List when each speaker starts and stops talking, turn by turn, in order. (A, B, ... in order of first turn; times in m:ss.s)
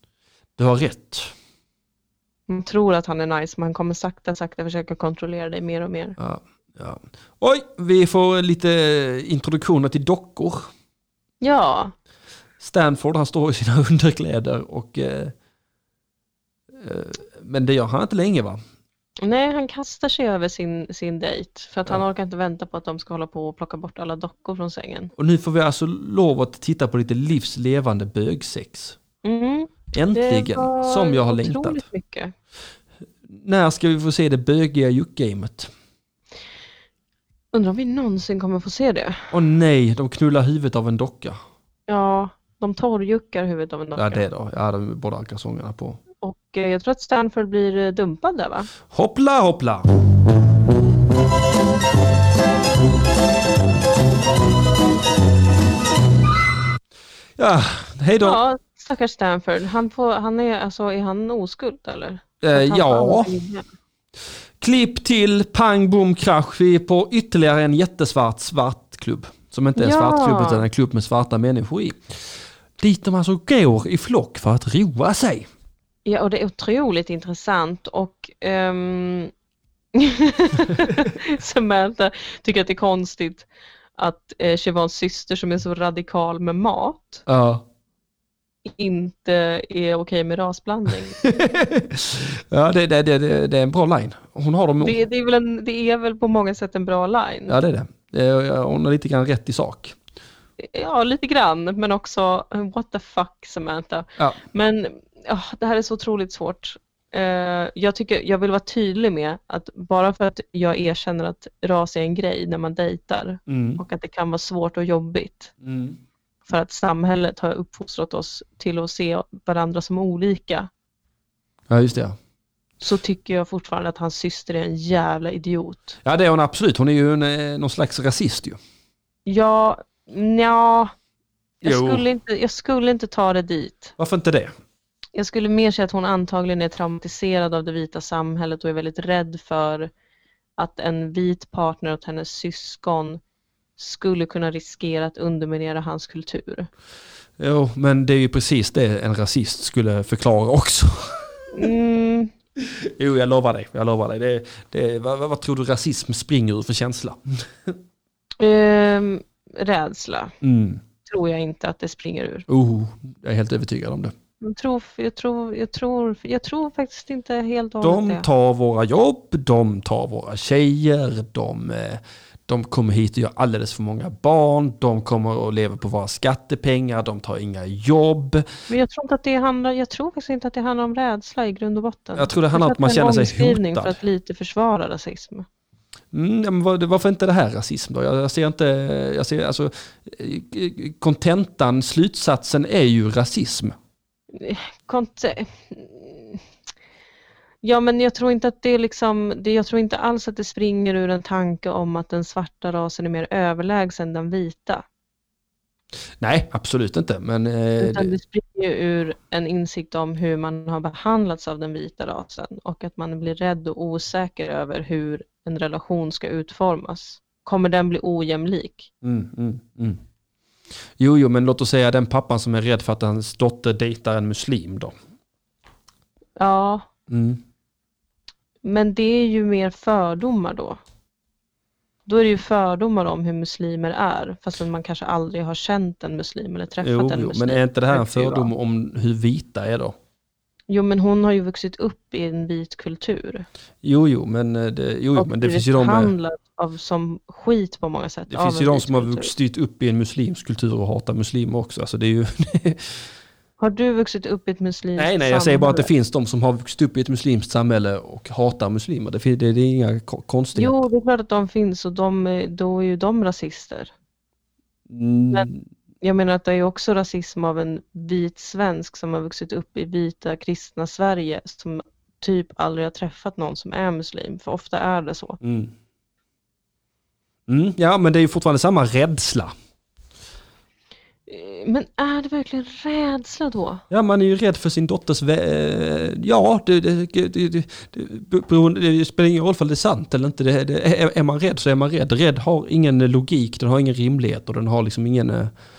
0:00.6-0:01.3 A
0:02.5-0:06.2 B
0:06.2-0:10.7 A
0:11.4-0:11.9 B
0:12.6-0:15.3 A
0:16.8-0:18.6 A
0:19.2-0:25.1 B
0:25.2-0:29.0 A
0:29.2-0:32.3 B
0:29.9-0:31.8 A
0:33.3-0:35.7 A
0:37.5-0:39.3 B
0:39.3-0:41.4 A
0:41.9-0:44.2 B
0:44.0-0:46.0 A
0:46.2-0:48.7 B
0:48.9-0:49.9 A
0:57.4-0:58.4 A
0:58.2-1:03.7 B
1:02.4-1:03.4 A
1:04.6-1:12.0 A
1:09.8-1:10.6 B
1:12.8-1:15.5 A
1:16.0-1:19.3 B
1:19.9-1:27.2 B
1:27.3-1:27.7 A
1:28.6-1:31.3 B
1:31.2-1:35.0 A
1:34.8-1:37.6 B
1:37.5-1:40.0 A
1:40.6-1:55.5 B
1:53.5-1:53.8 A
1:55.6-1:56.0 A
1:56.5-2:00.7 B
2:01.7-2:02.2 A
2:02.8-2:06.0 B
2:06.0-2:08.6 A
2:09.3-2:10.9 B
2:11.6-2:13.9 B
2:11.6-2:12.0 A
2:14.0-2:14.5 A
2:15.1-2:19.9 B
2:20.6-2:23.2 B
2:23.8-2:26.7 B
2:27.4-2:31.5 A
2:31.5-2:32.3 B
2:32.6-2:37.8 A
2:38.4-2:40.4 B
2:40.4-2:40.8 A
2:41.0-2:42.5 B
2:42.5-2:44.1 A
2:44.4-2:48.3 B
2:47.8-2:58.5 A
2:58.7-3:05.5 B
3:02.2-3:04.0 A
3:06.1-3:13.8 A
3:14.3-3:16.4 B
3:17.6-3:24.8 B
3:26.2-3:28.1 A
3:27.8-3:38.9 B
3:39.0-3:40.0 A
3:41.0-3:44.9 A
3:46.4-3:46.9 B
3:47.1-3:47.4 A
3:48.6-3:50.8 B
3:52.1-3:58.5 B
3:56.8-4:00.0 A
4:00.7-4:03.5 B
4:03.8-4:06.1 A
4:05.2-4:09.3 B
4:08.3-4:13.0 A
4:13.6-4:15.9 B
4:15.0-4:20.8 A
4:20.6-4:23.9 B
4:24.9-4:25.7 A
4:26.0-4:35.4 B
4:35.4-4:35.7 A
4:37.5-4:39.5 A
4:41.3-4:43.8 B
4:43.9-4:55.5 A